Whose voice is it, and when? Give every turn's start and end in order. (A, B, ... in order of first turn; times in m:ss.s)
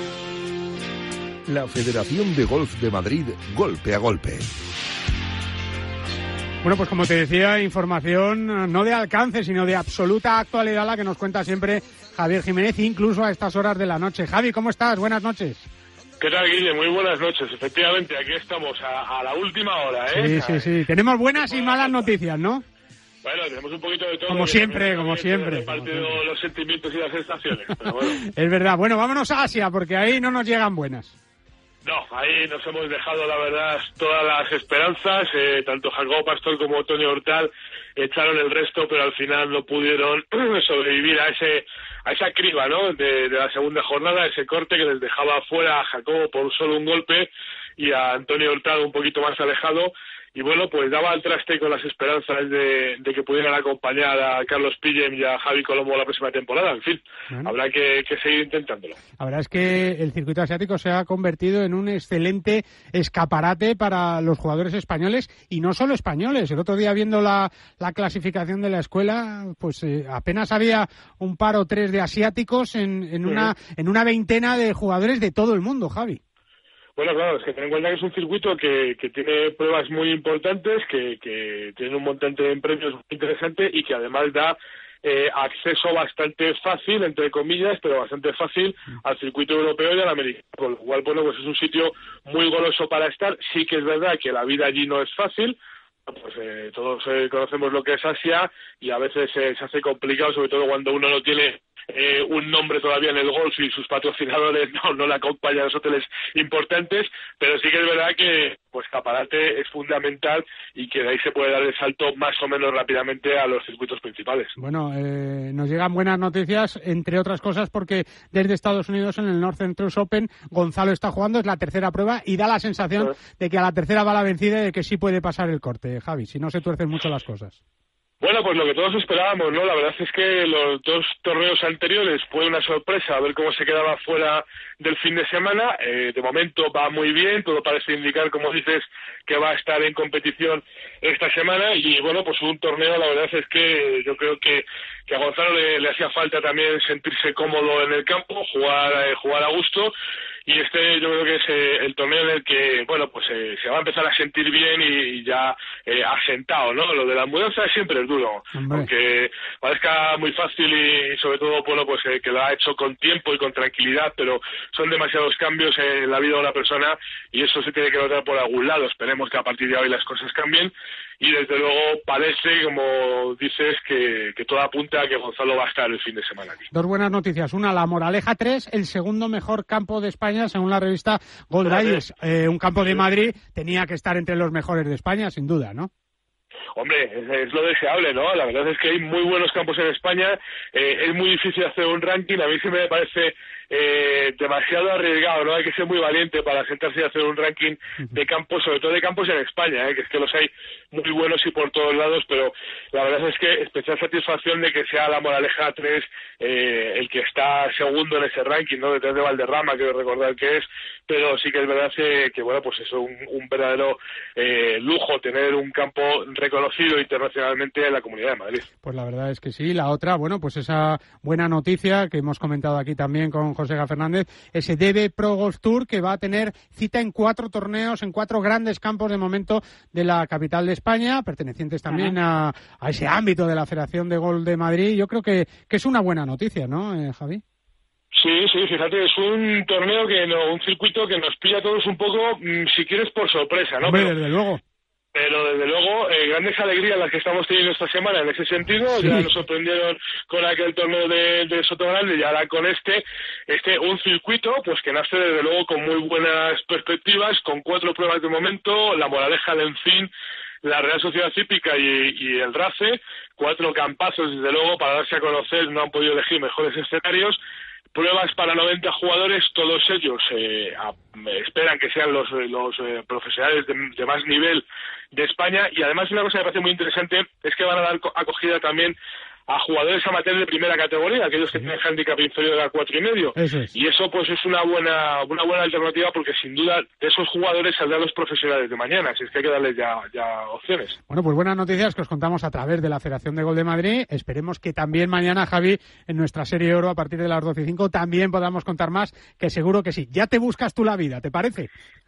0:01.5-0:04.5 A
0:06.6-0:15.7 B
0:16.2-0:20.8 C
0:20.1-0:22.6 B
0:21.3-0:22.1 C
0:23.2-0:28.2 C
0:24.3-0:26.2 B
0:28.2-0:31.2 B
0:31.8-0:59.0 C
0:59.2-1:16.2 B
1:13.2-1:13.5 C
1:17.0-1:54.5 C
1:54.6-2:07.6 B
2:08.2-2:29.9 C
2:30.5-2:56.7 C
2:38.5-2:38.9 B
2:56.7-3:05.9 B
3:01.6-3:02.0 C
3:06.8-3:38.7 C
3:38.8-3:57.4 B
3:51.9-3:52.2 C
3:58.2-4:04.1 C
4:03.8-4:04.6 B
4:05.1-4:20.1 C
4:09.0-4:09.3 B
4:20.6-4:27.4 C
4:27.9-4:39.0 C
4:39.5-4:51.0 C
4:43.4-4:43.7 B
4:51.1-5:01.7 B